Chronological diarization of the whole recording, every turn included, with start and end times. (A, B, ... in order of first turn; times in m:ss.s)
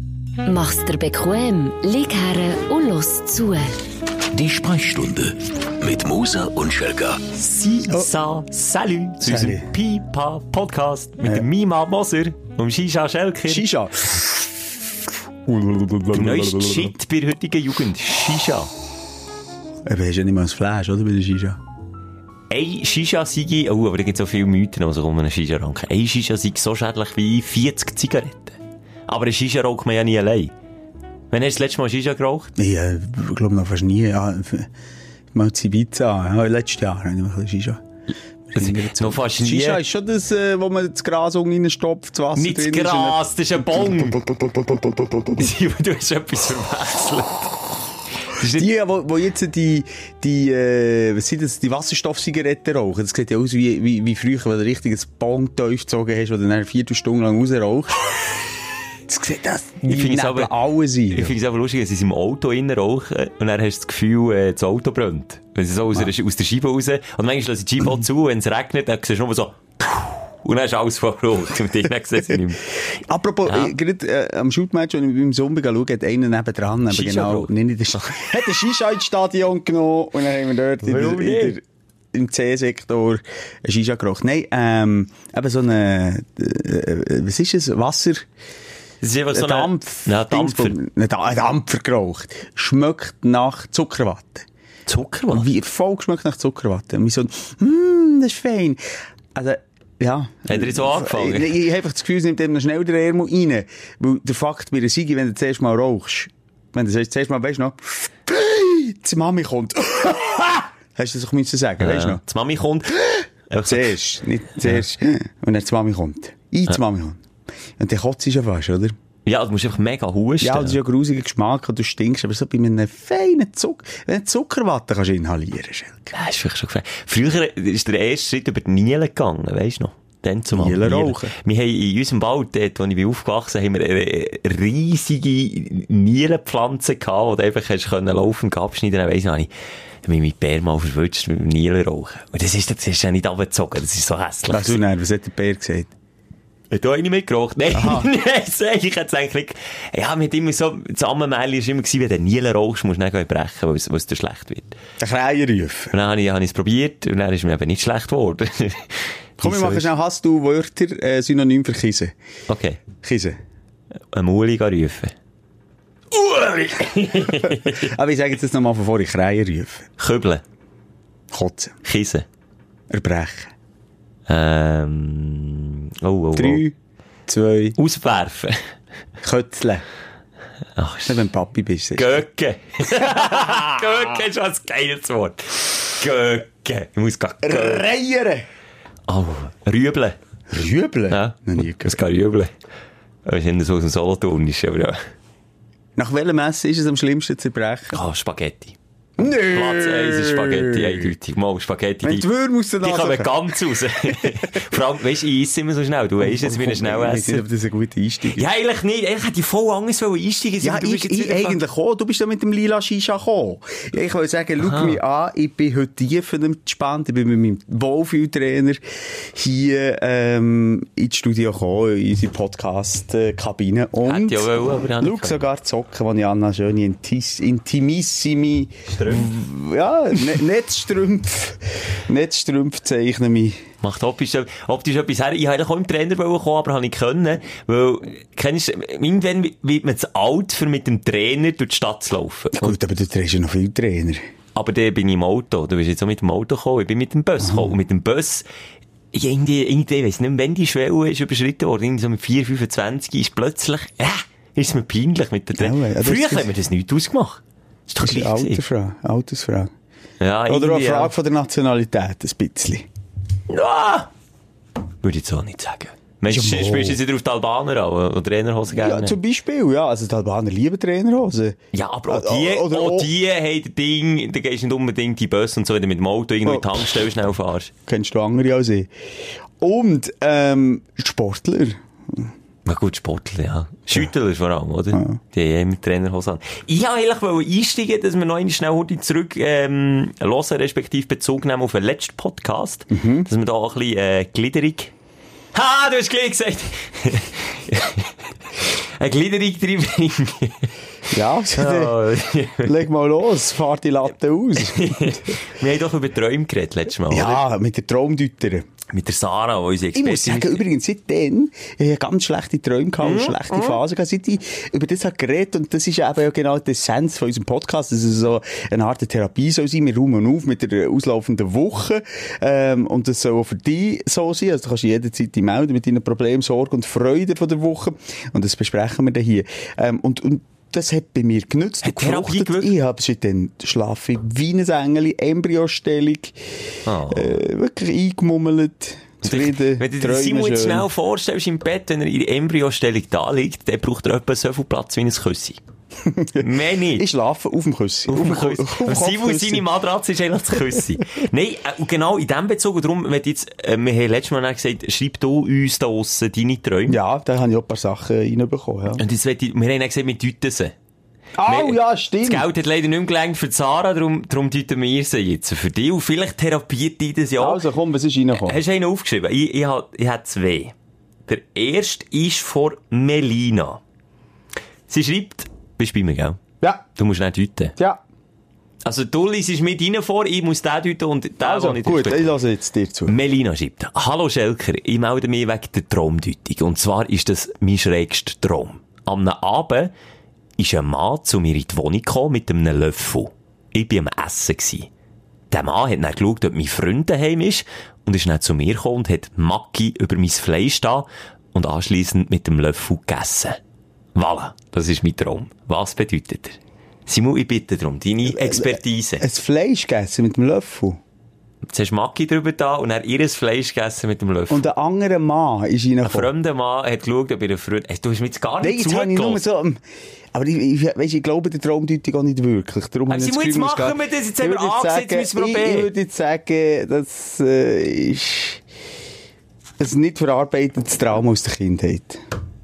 0:00.4-0:03.8 A
0:04.3-0:07.2 B
0:07.3-0:13.6 C
0:09.2-0:09.7 D
0:13.5-0:17.0 D
0:16.1-0:18.7 C
0:19.8-0:21.6 D
0:22.5-0:30.5 C
0:31.3-0:32.5 C
0:32.6-0:34.7 D
0:35.3-0:37.8 D
0:38.5-0:45.4 D
0:38.6-0:39.8 C
0:42.4-0:44.2 C
0:45.3-0:47.5 C
0:48.3-0:48.7 C
0:48.5-0:58.4 D
0:59.1-1:01.4 D
0:59.8-1:00.5 C
1:01.1-1:12.8 C
1:13.1-1:28.3 D
1:13.5-1:13.7 C
1:16.9-1:18.2 C
1:20.8-1:21.6 C
1:29.0-1:30.8 C
1:29.3-1:34.4 D
1:34.9-1:35.5 C
1:35.3-1:38.8 D
1:39.3-1:52.2 D
1:40.5-1:41.5 C
1:51.8-1:53.0 C
1:53.0-1:57.2 D
1:53.5-1:53.9 C
1:57.8-1:59.0 D
1:59.2-2:00.8 C
2:00.4-2:06.1 D
2:06.1-2:19.5 C
2:10.5-2:11.3 D
2:20.0-2:24.8 C
2:24.5-2:25.9 D
2:26.7-2:34.8 C
2:27.7-2:28.1 D
2:35.0-2:35.9 D
2:35.9-2:39.9 C
2:39.4-2:42.1 D
2:42.5-2:42.8 C
2:43.0-2:43.4 D
2:44.1-2:45.1 C
2:46.1-2:47.9 C
2:47.4-2:49.9 D
2:50.0-2:50.4 C
2:51.3-2:51.7 D
2:51.8-2:52.2 C
2:52.9-2:53.5 D
2:54.3-2:56.6 C
2:56.4-2:56.7 D
2:57.3-2:57.8 D
2:57.8-2:58.6 C
2:59.2-2:59.8 D
3:00.8-3:01.2 C
3:01.0-3:02.1 D
3:02.0-3:07.8 C
3:02.9-3:03.8 D
3:07.4-3:08.4 D
3:09.1-3:10.2 C
3:10.5-3:12.0 D
3:11.1-3:12.5 C
3:13.2-3:15.0 C
3:16.0-3:18.0 D
3:17.9-3:18.8 C
3:19.2-3:21.1 D
3:19.4-3:22.2 C
3:22.0-3:24.8 D
3:22.8-3:27.4 C
3:26.2-3:28.5 D
3:28.3-3:31.6 C
3:30.6-3:53.6 D
3:34.6-3:35.0 C
3:44.0-3:45.4 C
3:48.9-3:49.3 C
3:53.8-4:02.8 C
4:02.5-4:04.2 D
4:04.6-4:08.4 C
4:07.4-4:07.7 D
4:09.1-4:18.6 C
4:15.6-4:16.5 D
4:18.0-4:19.7 D
4:20.2-4:21.1 C
4:20.5-4:22.9 D
4:23.5-4:24.1 C
4:25.0-4:29.2 C
4:26.3-4:27.0 D
4:28.7-4:33.1 D
4:31.7-4:37.7 C
4:37.9-4:38.9 D
4:39.6-4:42.3 D
4:42.6-4:54.9 C
4:44.9-4:45.2 D
4:52.9-4:53.3 D
4:55.5-5:00.7 C
5:01.1-5:02.1 D
5:01.5-5:02.7 C
5:02.6-5:05.4 D
5:04.6-5:07.4 C
5:07.1-5:08.7 D
5:08.9-5:10.6 C
5:10.0-5:36.5 D
5:13.0-5:13.8 C
5:31.8-5:32.7 C
5:36.8-5:37.4 C
5:37.1-5:40.9 D
5:39.2-5:45.6 C
5:46.0-5:49.7 D
5:46.4-5:47.1 C
5:48.1-5:57.0 C
5:56.9-5:59.0 D
5:59.0-6:00.7 C
6:01.4-6:02.5 D
6:01.5-6:07.6 C
6:07.4-6:08.6 D
6:08.3-6:10.7 C
6:11.3-6:13.8 C
6:14.9-6:16.4 C
6:16.9-6:17.8 C
6:18.8-6:22.3 C
6:21.4-6:23.1 D
6:23.1-6:29.9 C
6:30.6-6:34.9 C
6:35.5-6:43.6 C
6:44.2-6:49.2 C
6:48.3-6:51.0 D
6:51.7-6:54.7 C
6:54.5-6:56.3 D
6:56.0-6:59.4 C
6:58.6-6:59.8 D
7:00.3-7:08.6 D
7:03.1-7:05.9 C
7:09.8-7:12.2 D